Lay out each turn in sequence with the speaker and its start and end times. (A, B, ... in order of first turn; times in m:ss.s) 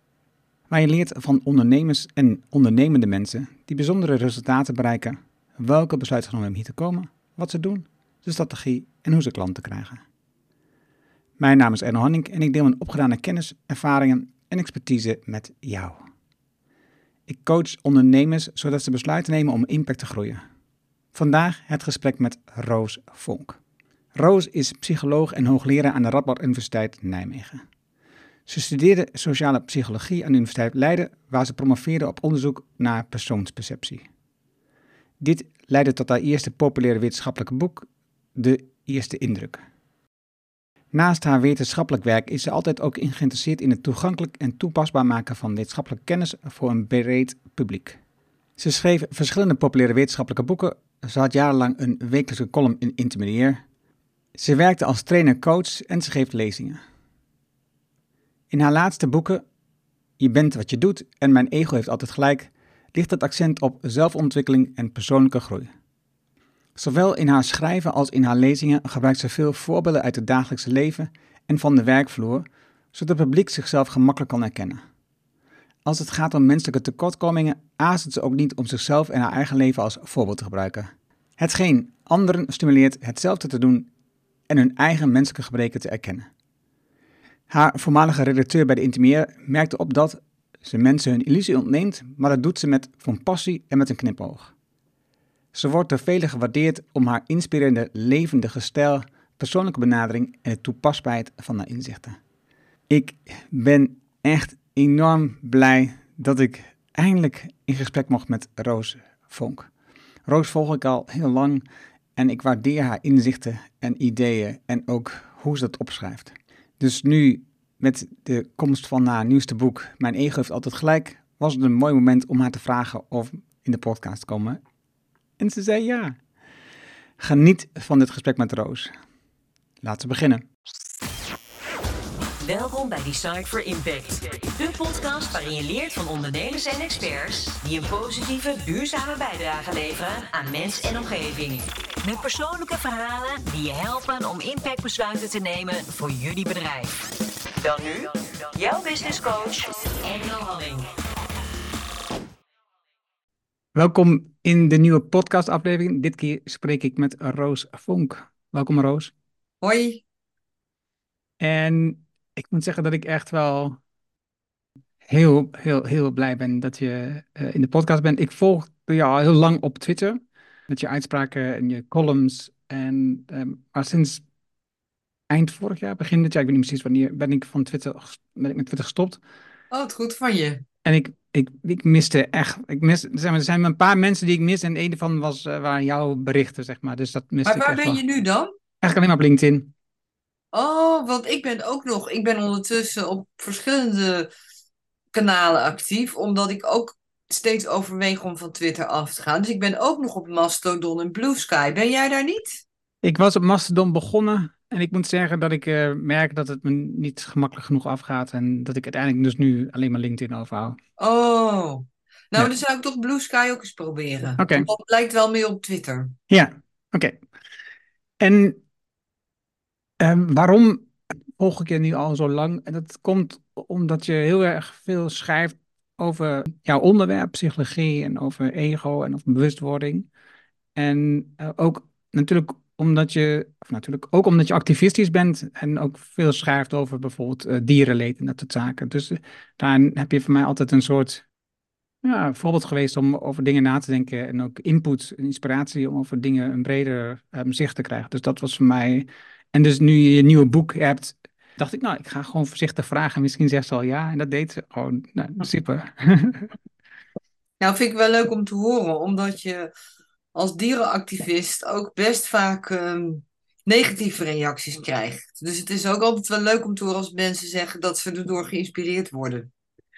0:00.7-0:10.0 A
0:11.4-0:16.0 A
0:17.3-0:20.4 A
0:21.1-0:23.6 A
0:24.2-0:27.6 A
0:28.5-0:34.0 A
0:35.2-0:39.6 A
0:40.9-0:48.0 A
0:48.6-0:53.6 A
0:54.4-0:56.8 A
0:58.5-0:59.4 A
1:00.2-1:05.7 A
1:06.8-1:14.8 A
1:15.8-1:23.9 A
1:24.5-1:26.3 A
1:27.5-1:34.5 A
1:35.5-1:42.2 A
1:42.9-1:49.7 A
1:50.3-1:51.6 A
1:52.2-2:04.6 A
2:05.4-2:06.2 A
2:07.2-2:08.9 A
2:09.8-2:10.4 A
2:12.4-2:27.0 B
2:27.6-2:30.9 B
2:33.8-2:39.1 A
2:39.6-2:40.0 C
2:41.4-2:43.8 A
2:45.1-2:54.2 A
2:55.3-2:59.2 A
2:59.7-3:00.6 C
3:00.8-3:08.0 A
3:07.5-3:08.5 C
3:08.8-3:09.7 A
3:10.5-3:14.3 C
3:15.1-3:22.6 C
3:23.0-3:30.8 A
3:31.0-3:36.2 C
3:34.4-3:34.7 A
3:36.3-3:37.2 A
3:38.2-3:38.6 A
3:40.0-3:50.1 A
3:50.8-4:01.3 A
4:02.0-4:16.5 A
4:17.6-4:19.7 C
4:20.3-4:29.5 C